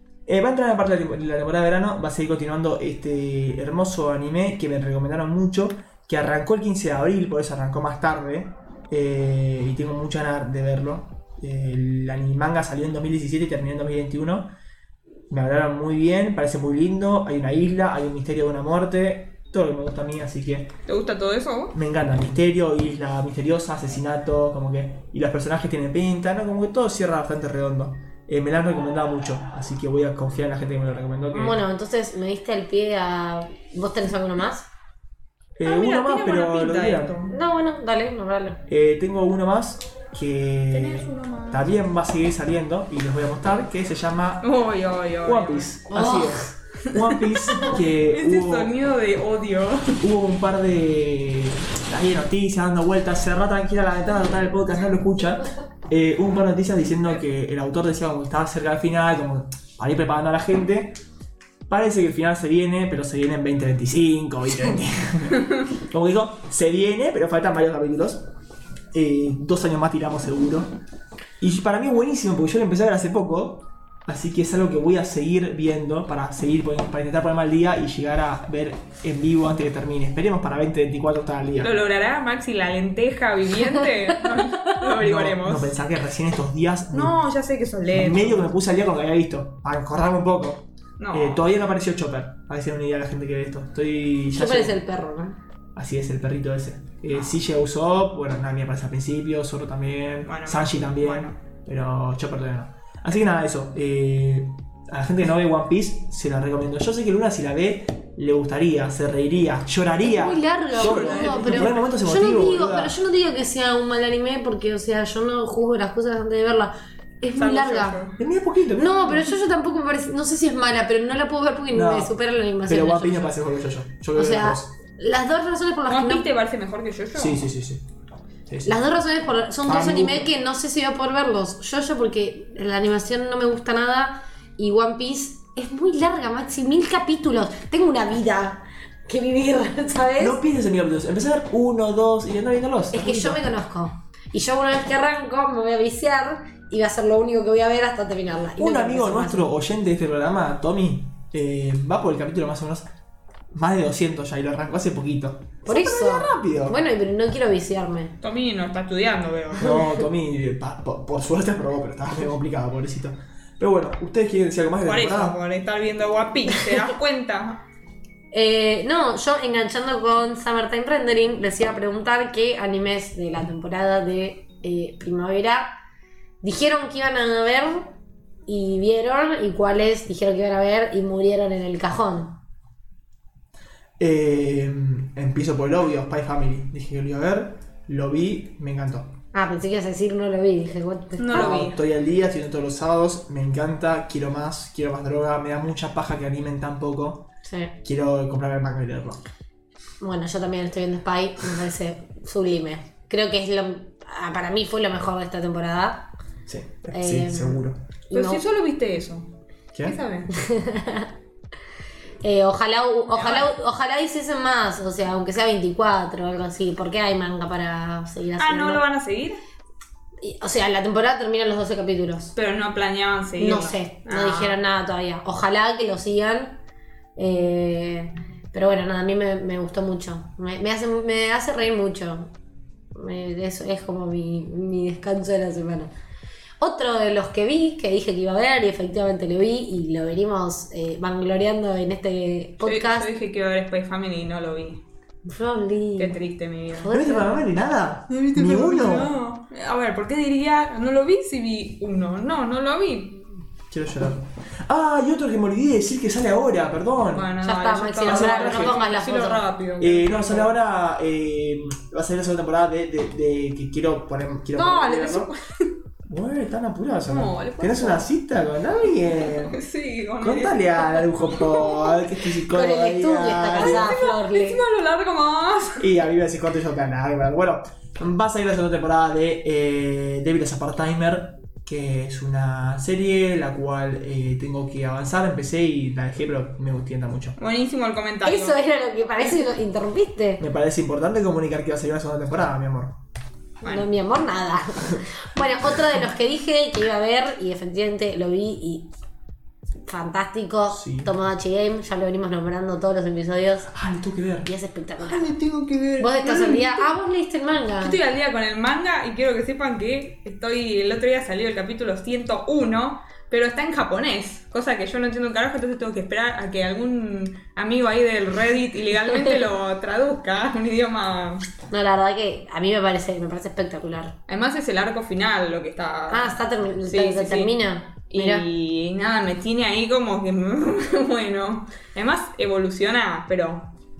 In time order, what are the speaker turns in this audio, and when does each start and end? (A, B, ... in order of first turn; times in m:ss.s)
0:00.2-0:14.5 A
0:15.3-0:20.7 A
0:20.8-0:21.7 B
0:21.7-0:31.6 A
0:31.3-0:34.7 C
0:35.6-0:37.2 A
0:35.6-0:37.4 B
0:37.3-0:38.6 C
0:38.7-0:44.5 A
0:40.7-0:41.7 B
0:44.4-0:45.7 B
0:45.2-0:48.7 A
0:45.9-0:46.5 C
0:46.8-0:50.0 B
0:50.0-1:01.0 A
1:01.7-1:08.2 A
1:08.9-1:10.7 A
1:11.4-1:21.7 A
1:21.6-1:25.7 B
1:25.0-1:27.2 A
1:26.9-1:28.5 B
1:27.9-1:34.8 A
1:31.0-1:31.6 B
1:34.3-1:35.4 C
1:35.7-1:53.0 A
1:40.2-1:41.4 B
1:50.0-1:58.0 C
1:50.7-1:51.8 B
1:57.4-1:58.2 B
1:58.2-1:59.3 A
1:58.8-2:03.3 C
2:01.7-2:02.1 A
2:02.6-2:04.7 A
2:04.1-2:06.3 C
2:05.9-2:07.4 B
2:07.1-2:07.8 A
2:08.5-2:08.8 A
2:08.6-2:20.4 C
2:09.6-2:10.3 A
2:20.2-2:23.4 A
2:22.9-2:29.5 C
2:28.6-2:32.8 A
2:33.5-2:36.8 A
2:35.6-2:38.1 C
2:38.2-2:39.9 B
2:39.5-2:45.4 A
2:44.8-2:47.6 B
2:48.3-2:55.7 C
2:56.4-2:57.9 C
2:58.5-3:02.4 C
3:04.0-3:09.1 A
3:09.3-3:11.6 C
3:11.2-3:11.8 B
3:11.3-3:17.2 A
3:17.4-3:17.7 C
3:17.8-3:19.2 A
3:20.0-3:26.0 C
3:26.5-3:27.8 A
3:26.9-3:28.4 C
3:28.1-3:29.3 B
3:29.7-3:30.0 A
3:29.8-3:30.3 B
3:30.3-3:31.1 C
3:32.2-3:38.8 C
3:33.1-3:33.5 B
3:38.4-3:39.4 B
3:40.2-3:42.3 C
3:42.3-3:44.6 B
3:43.4-3:46.6 C
3:47.2-3:52.3 C
3:52.9-3:55.9 C
3:56.6-4:03.1 C
4:02.6-4:04.8 B
4:05.2-4:06.2 C
4:06.0-4:06.9 B
4:06.7-4:07.4 C
4:06.9-4:09.1 A
4:08.1-4:13.2 B
4:13.7-4:17.3 A
4:17.1-4:20.5 B
4:17.4-4:19.4 C
4:18.0-4:18.8 A
4:19.8-4:25.3 A
4:24.5-4:25.7 B
4:26.1-4:29.6 A
4:27.0-4:28.1 B
4:29.2-4:32.1 B
4:30.2-4:33.9 A
4:32.5-4:34.6 C
4:33.5-4:35.9 B
4:35.8-4:47.4 A
4:47.4-4:48.6 B
4:48.2-4:50.4 C
4:50.4-4:53.0 A
4:53.6-4:53.9 B
4:53.6-4:58.9 C
4:59.8-5:03.7 C
5:00.7-5:01.1 A
5:03.7-5:04.5 A
5:04.4-5:05.3 C
5:05.0-5:06.9 B
5:06.0-5:08.0 C
5:07.8-5:21.5 B
5:21.7-5:24.1 C
5:24.3-5:27.6 B
5:26.1-5:28.4 C
5:28.1-5:33.7 B